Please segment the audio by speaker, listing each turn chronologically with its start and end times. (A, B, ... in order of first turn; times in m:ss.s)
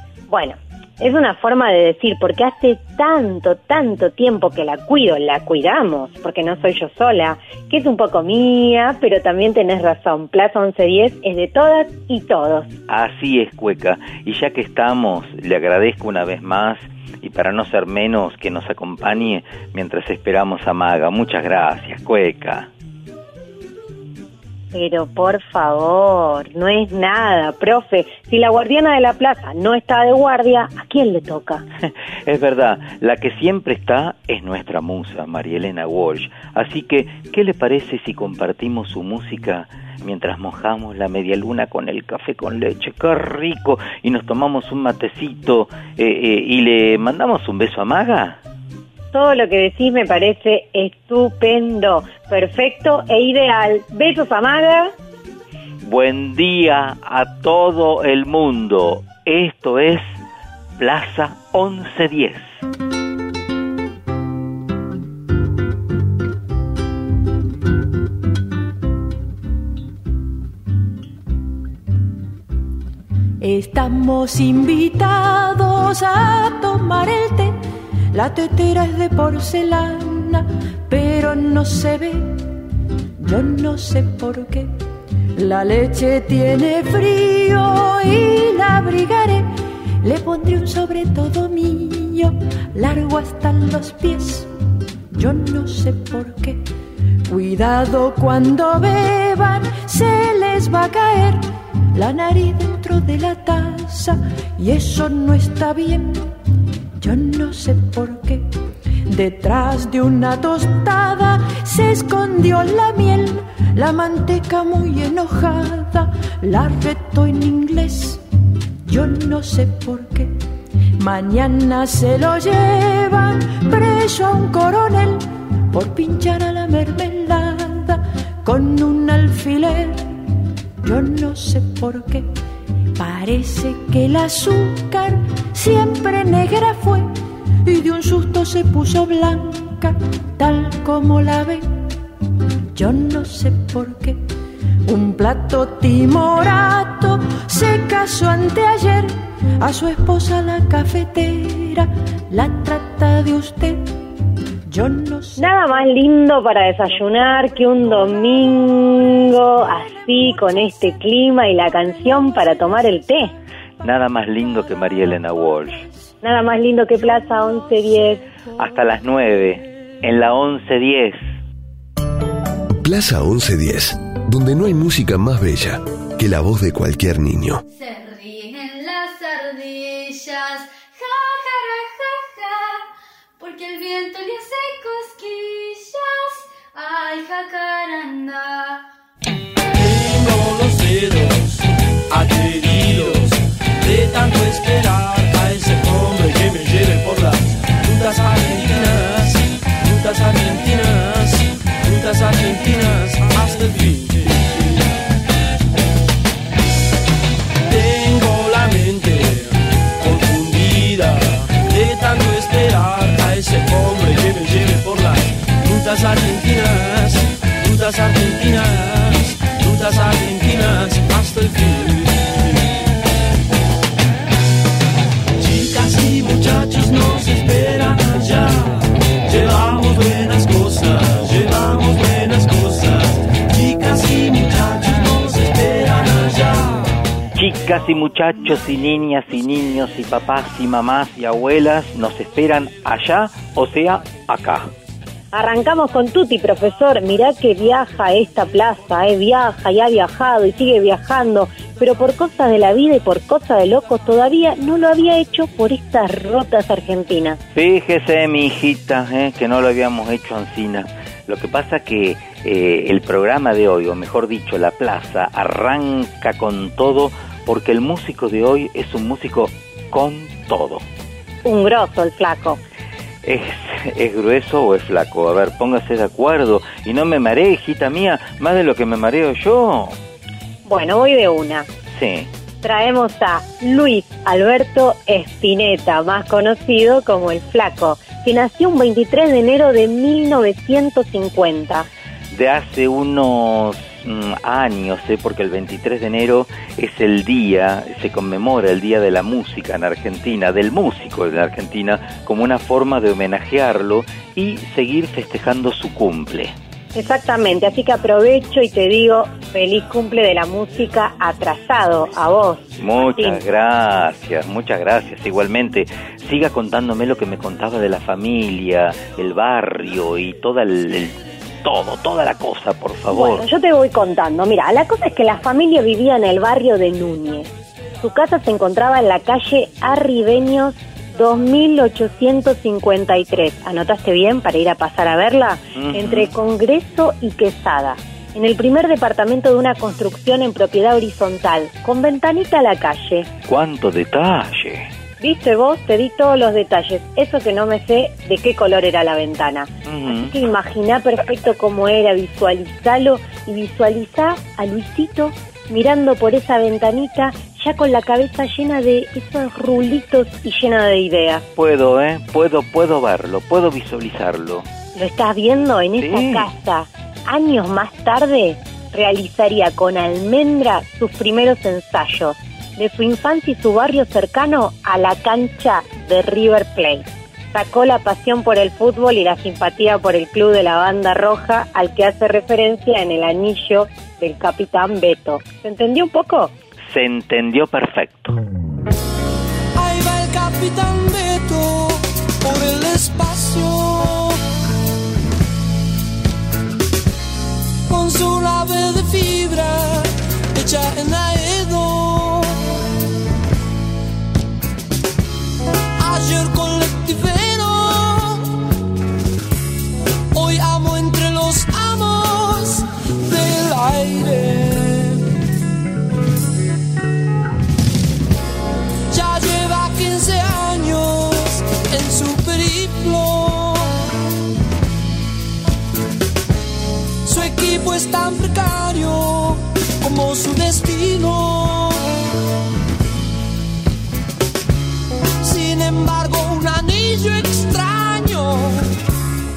0:00.3-0:12.7 A
0:12.9-0:22.7 B
0:24.7-0:31.6 A
0:31.8-0:48.4 B
0:49.1-0:54.9 A
0:55.8-1:00.2 B
1:00.8-1:02.6 B
1:13.4-1:17.6 C
1:18.1-1:22.4 C
1:23.2-1:24.8 C
1:25.4-1:29.5 C
1:30.0-1:34.5 C
1:35.1-1:36.6 C
1:37.3-1:46.3 C
1:47.0-1:48.5 C
1:49.1-1:58.2 C
1:58.8-2:00.4 C
2:01.0-2:10.1 C
2:10.8-2:12.3 C
2:13.0-2:17.1 C
2:17.6-2:21.8 C
2:22.7-2:24.2 C
2:24.8-2:33.9 C
2:34.6-2:35.4 C
2:35.4-2:43.3 A
2:43.8-2:45.8 B
2:46.2-2:48.2 A
2:48.6-2:51.2 B
2:52.8-2:57.6 D
2:57.8-3:02.8 E
3:03.4-3:08.8 E
3:09.8-3:11.3 F
3:12.2-3:13.1 F
3:14.6-3:15.2 F
3:15.8-3:17.3 F
3:18.3-3:18.7 F
3:20.0-3:20.7 F
3:21.9-3:24.3 F
3:27.7-3:29.2 F
3:30.0-3:31.1 F
3:31.7-3:37.1 F
3:37.6-3:38.6 F
3:39.6-3:41.9 F
3:45.5-3:48.7 F
3:49.3-3:53.0 F
3:53.6-3:56.7 F
3:57.4-4:04.7 B
4:05.3-4:17.4 A
4:17.5-4:30.8 B
4:31.4-4:32.6 A
4:33.2-4:40.0 B
4:40.6-4:41.7 A
4:41.9-4:42.3 B
4:42.6-4:51.9 A
4:52.3-5:06.5 B
5:06.9-5:12.6 A
5:12.8-5:23.4 B
5:13.2-5:13.4 A
5:23.1-5:27.5 A
5:28.0-5:43.3 A
5:35.8-5:36.3 B
5:43.5-5:44.9 B
5:45.2-6:01.4 A
5:49.8-5:50.3 B
6:01.6-6:04.6 B
6:04.9-6:26.5 A
6:06.0-6:06.5 B
6:26.9-6:28.4 B
6:29.8-6:31.8 G
6:32.4-6:34.0 G
6:37.9-6:40.0 G
6:40.6-6:42.3 G
6:46.0-6:48.3 G
6:50.3-6:55.1 G
6:59.1-7:03.9 G
7:07.3-7:11.9 G
7:15.4-7:18.8 G